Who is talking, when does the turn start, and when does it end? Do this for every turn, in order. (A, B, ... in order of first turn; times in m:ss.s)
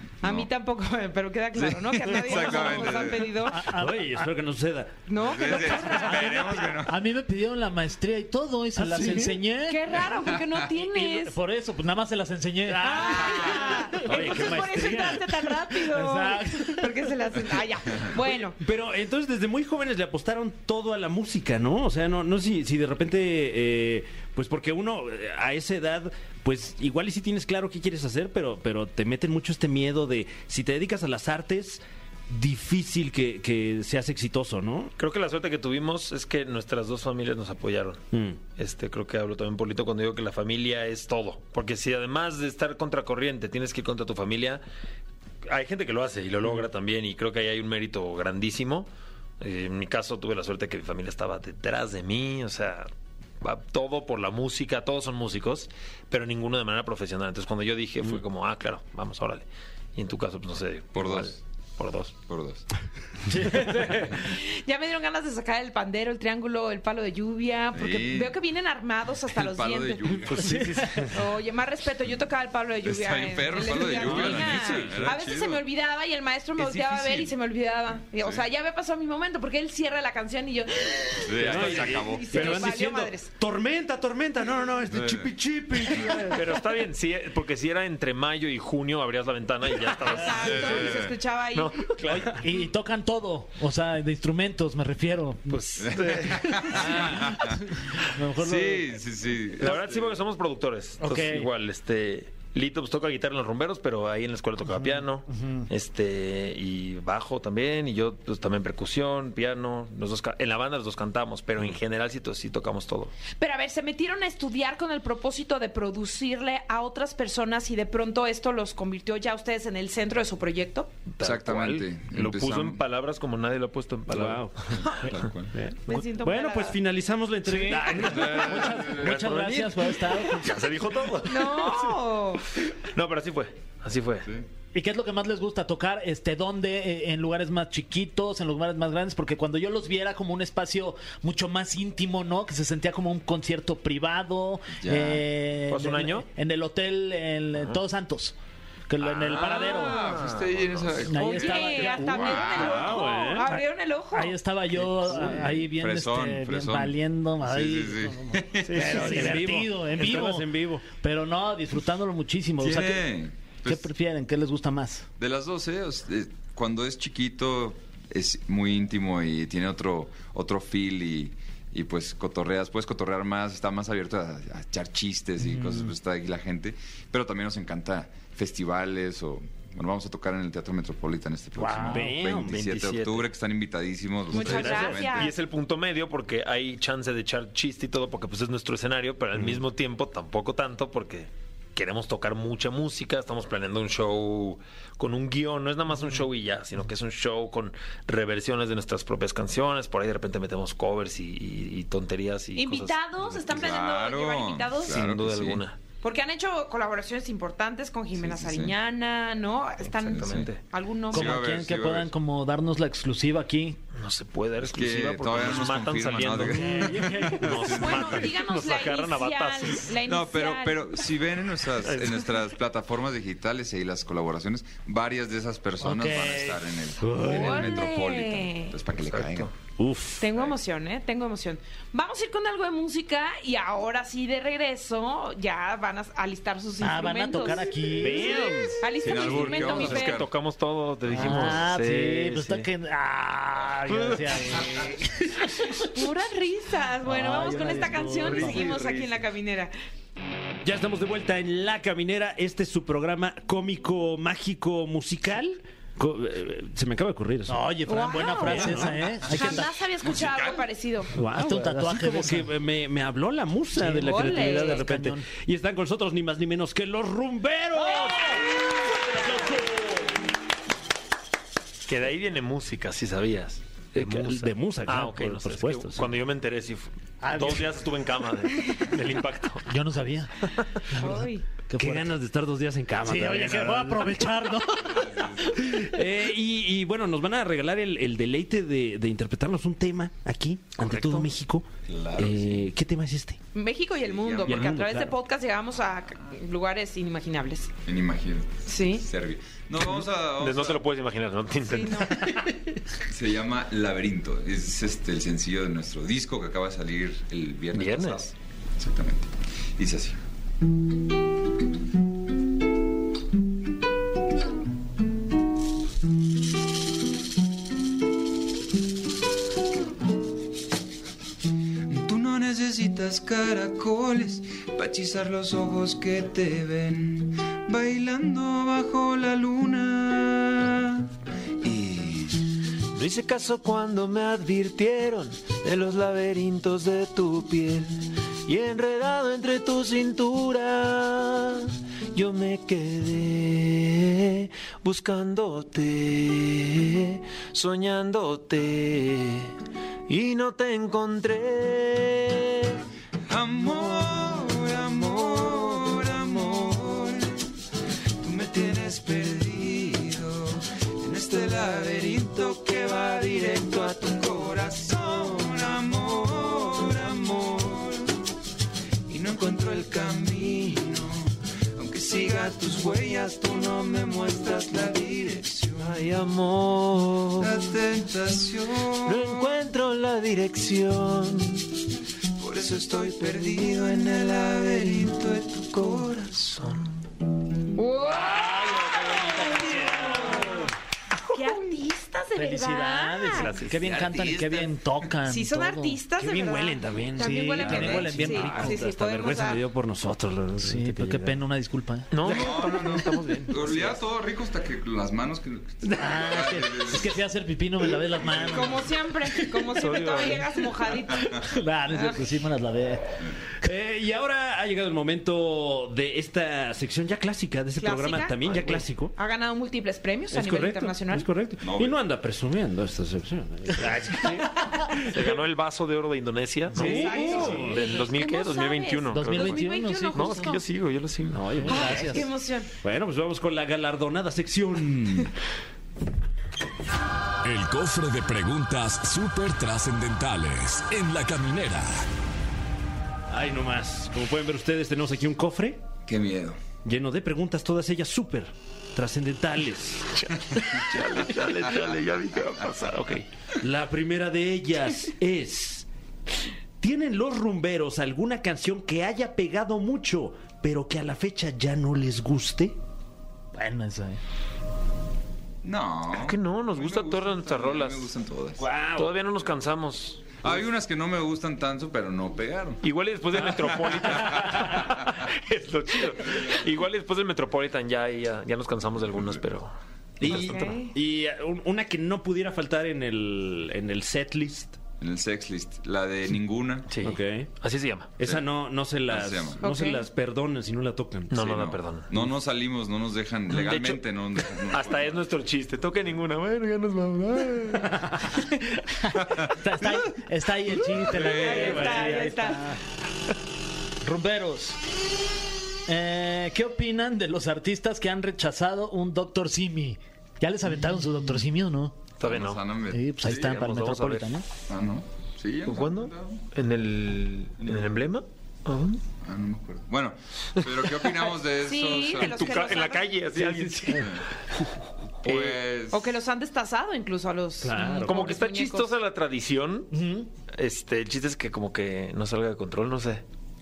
0:00.2-0:00.5 A
0:00.2-0:03.7 B
0:01.6-0:03.3 A
0:03.4-0:04.3 C
0:03.7-0:05.0 D
0:05.1-0:06.7 B
0:05.2-0:07.0 A
0:06.2-0:10.1 C
0:08.8-0:09.4 D
0:09.7-0:11.4 B
0:10.2-0:10.6 A
0:10.8-0:14.2 C
0:12.7-0:15.4 D
0:12.8-0:18.6 B
0:15.7-0:17.0 C
0:18.1-0:34.9 D
0:35.0-0:44.6 E
0:38.1-0:38.4 D
0:45.5-0:48.9 E
0:49.4-0:52.9 E
0:53.4-1:02.1 E
1:00.9-1:01.4 A
1:02.3-1:02.6 A
1:03.3-1:04.2 C
1:04.2-1:10.0 B
1:07.7-1:08.4 A
1:09.3-1:10.7 A
1:10.3-1:11.1 E
1:10.3-1:11.0 D
1:10.4-1:11.0 C
1:11.0-1:23.3 B
1:12.8-1:15.6 A
1:13.9-1:15.1 D
1:16.6-1:17.3 A
1:21.2-1:22.7 A
1:21.4-1:26.5 D
1:24.9-1:25.3 A
1:26.3-1:31.0 E
1:30.0-1:31.8 B
1:30.3-1:31.2 A
1:31.5-1:32.4 E
1:32.0-1:35.9 C
1:35.5-1:37.4 E
1:35.8-1:37.6 A
1:36.8-1:39.0 C
1:38.3-1:40.0 A
1:39.6-1:53.1 E
1:41.0-1:41.5 C
1:44.6-1:45.7 C
1:53.4-2:00.9 B
2:01.1-2:04.8 E
2:01.2-2:02.8 A
2:04.1-2:04.7 D
2:04.7-2:05.6 A
2:04.8-2:05.1 B
2:05.5-2:09.0 D
2:05.9-2:06.8 B
2:07.4-2:10.7 C
2:08.1-2:12.0 E
2:08.2-2:09.1 A
2:11.2-2:12.5 B
2:12.6-2:14.3 E
2:14.7-2:28.4 C
2:24.8-2:25.2 A
2:25.7-2:26.3 E
2:28.9-2:30.1 C
2:29.0-2:33.0 A
2:29.3-2:31.0 E
2:31.0-2:32.7 C
2:31.1-2:34.4 B
2:32.5-2:33.5 D
2:33.4-2:43.1 C
2:35.0-2:39.2 A
2:35.1-2:35.4 D
2:38.6-2:40.9 D
2:42.6-2:43.9 A
2:43.6-2:45.1 C
2:45.2-3:05.3 A
3:01.6-3:02.1 C
3:01.8-3:02.6 D
3:02.4-3:03.3 E
3:04.3-3:05.3 B
3:04.4-3:23.0 E
3:04.4-3:05.0 D
3:09.4-3:09.6 D
3:22.6-3:25.0 B
3:23.3-3:25.6 A
3:24.9-3:25.8 E
3:26.0-3:31.4 B
3:28.1-3:28.8 A
3:29.8-3:30.6 E
3:30.1-3:30.5 A
3:31.1-3:32.1 A
3:31.1-3:33.8 C
3:34.0-3:40.0 E
3:34.6-3:38.3 A
3:36.4-3:37.4 C
3:36.5-3:37.4 D
3:37.7-3:41.1 B
3:40.0-3:49.5 A
3:41.8-3:42.3 E
3:45.8-3:46.7 C
3:47.0-3:47.7 D
3:47.2-3:48.8 B
3:49.0-3:49.5 E
3:49.8-3:50.3 D
3:50.2-4:00.2 B
3:56.8-3:58.6 C
3:58.0-3:58.8 D
3:58.9-4:00.3 A
3:59.1-4:02.7 E
4:01.1-4:05.8 C
4:03.9-4:04.6 E
4:05.8-4:09.7 B
4:07.0-4:08.7 C
4:08.4-4:09.1 A
4:08.4-4:08.8 E
4:10.6-4:17.6 D
4:17.5-4:19.7 C
4:17.9-4:21.1 B
4:20.0-4:20.7 A
4:21.1-4:30.1 D
4:21.3-4:22.5 C
4:23.8-4:25.3 C
4:24.0-4:24.9 B
4:31.9-4:39.7 E
4:34.0-4:36.1 D
4:37.2-4:37.7 C
4:39.7-4:40.3 C
4:40.8-4:42.1 C
4:41.0-4:41.4 B
4:41.8-4:44.3 D
4:43.0-4:45.7 C
4:44.8-4:45.6 A
4:45.6-4:53.4 D
4:50.9-4:51.3 E
4:51.9-4:52.7 A
4:53.5-4:57.7 B
4:54.0-4:54.8 A
4:54.4-4:55.2 D
4:57.8-5:00.8 A
4:58.7-4:59.1 B
4:59.8-5:02.3 E
5:01.6-5:02.4 B
5:03.0-5:10.2 A
5:07.7-5:08.2 E
5:21.9-5:31.1 A
5:31.6-5:32.4 A
5:32.9-5:49.5 E
5:50.1-5:52.8 E
5:53.3-5:57.4 A
5:58.2-6:08.1 A
6:09.1-6:16.0 A
6:15.8-6:17.6 E
6:17.4-6:19.4 A
6:19.0-6:21.6 E
6:22.4-6:26.3 A
6:25.7-6:27.0 E
6:27.8-6:30.7 B
6:29.0-6:30.5 C
6:31.3-6:33.5 B
6:32.4-6:36.0 C
6:33.3-6:33.9 E
6:33.7-6:34.8 A
6:35.3-6:39.6 B
6:36.2-6:41.4 D
6:37.2-6:38.9 C
6:40.6-6:42.1 C
6:42.1-6:44.0 E
6:42.2-6:47.2 A
6:42.2-6:43.5 D
6:45.9-6:48.9 C
6:48.3-6:48.7 A
6:48.4-6:51.4 B
6:49.8-6:50.5 E
6:51.2-6:53.2 C
6:51.9-6:52.2 B
6:53.6-6:59.1 D
6:57.8-7:01.3 B
7:00.3-7:05.2 D
7:01.6-7:02.0 A
7:05.0-7:11.7 E
7:06.7-7:07.7 C
7:06.7-7:07.8 D
7:06.8-7:10.6 B
7:09.1-7:10.6 C
7:11.2-7:12.2 D
7:11.6-7:12.3 C
7:11.7-7:12.7 B
7:12.8-7:15.3 D
7:17.4-7:22.1 F
7:23.3-7:25.8 D
7:26.1-7:26.6 A
7:26.8-7:30.2 D
7:30.2-7:33.3 E
7:30.5-7:31.9 A
7:33.6-7:35.9 D
7:36.8-7:42.8 D
7:43.5-7:44.2 C
7:45.6-7:48.6 A
7:46.1-7:48.1 E
7:48.6-7:49.2 D
7:49.0-7:50.5 E
7:50.4-7:52.8 A
7:52.8-8:00.7 E
7:53.7-7:55.2 A
8:00.2-8:04.8 D
8:00.2-8:01.0 B
8:05.0-8:07.0 A
8:06.9-8:08.1 E
8:07.0-8:07.5 D
8:08.2-8:11.5 D
8:08.2-8:08.5 A
8:09.1-8:09.6 A
8:09.6-8:10.1 B
8:11.3-8:12.1 E
8:11.4-8:15.2 A
8:13.5-8:18.0 E
8:19.0-8:22.8 C
8:20.9-8:22.0 A
8:21.1-8:22.8 B
8:24.0-8:24.8 C
8:25.9-8:32.0 C
8:32.2-8:32.6 E
8:32.2-8:33.3 A
8:32.9-8:34.5 C
8:33.2-8:34.4 E
8:34.7-8:36.4 A
8:35.6-8:39.0 E
8:37.6-8:38.0 A
8:39.2-8:42.9 A
8:40.6-8:41.3 E
8:41.6-8:43.2 B
8:42.1-8:44.3 E
8:43.5-8:44.0 D
8:43.9-8:44.2 A
8:45.2-8:46.1 A
8:45.2-8:45.6 E
8:45.9-8:48.9 B
8:47.6-8:48.4 D
8:48.0-8:49.9 E
8:49.9-8:50.3 C
8:50.5-8:53.2 E